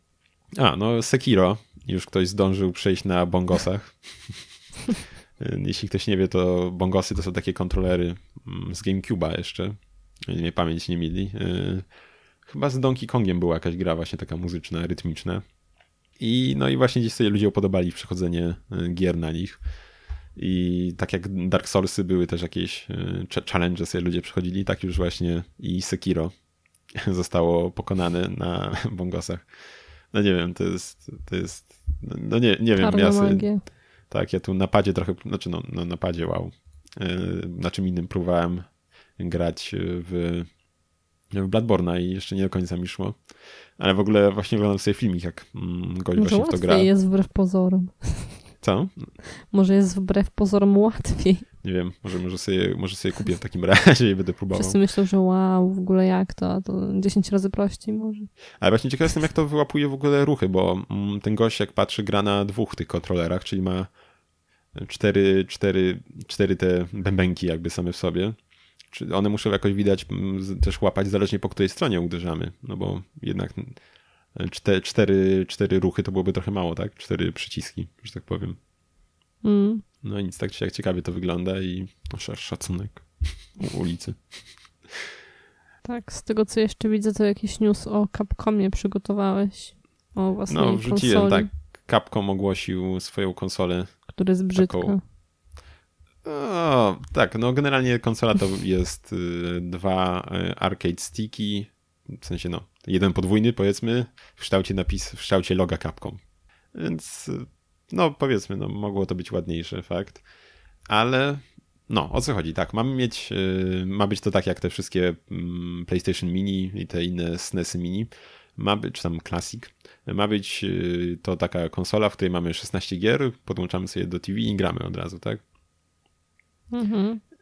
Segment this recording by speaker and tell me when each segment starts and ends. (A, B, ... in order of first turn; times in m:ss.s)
0:00.5-0:04.6 A
0:05.4-0:11.9 A
0:12.4-0:15.4 A
0:16.2-0:19.6 A
0:20.4-0:26.3 A
0:27.0-0:40.5 A
0:32.8-0:33.6 B
0:41.3-0:46.9 A
0:46.2-0:48.5 B
0:48.6-0:49.1 A
0:49.4-0:51.4 B
0:51.6-0:54.8 A
0:54.5-0:58.3 B
0:58.6-1:03.9 A
1:04.7-1:08.4 A
1:08.9-1:13.8 A
1:14.3-1:18.6 A
1:19.4-1:19.8 B
1:20.0-1:24.3 A
1:25.8-1:31.5 B
1:30.5-1:35.0 A
1:34.1-1:35.0 B
1:36.2-1:46.2 A
1:46.7-1:50.2 A
1:50.9-2:05.4 A
2:06.7-2:07.2 B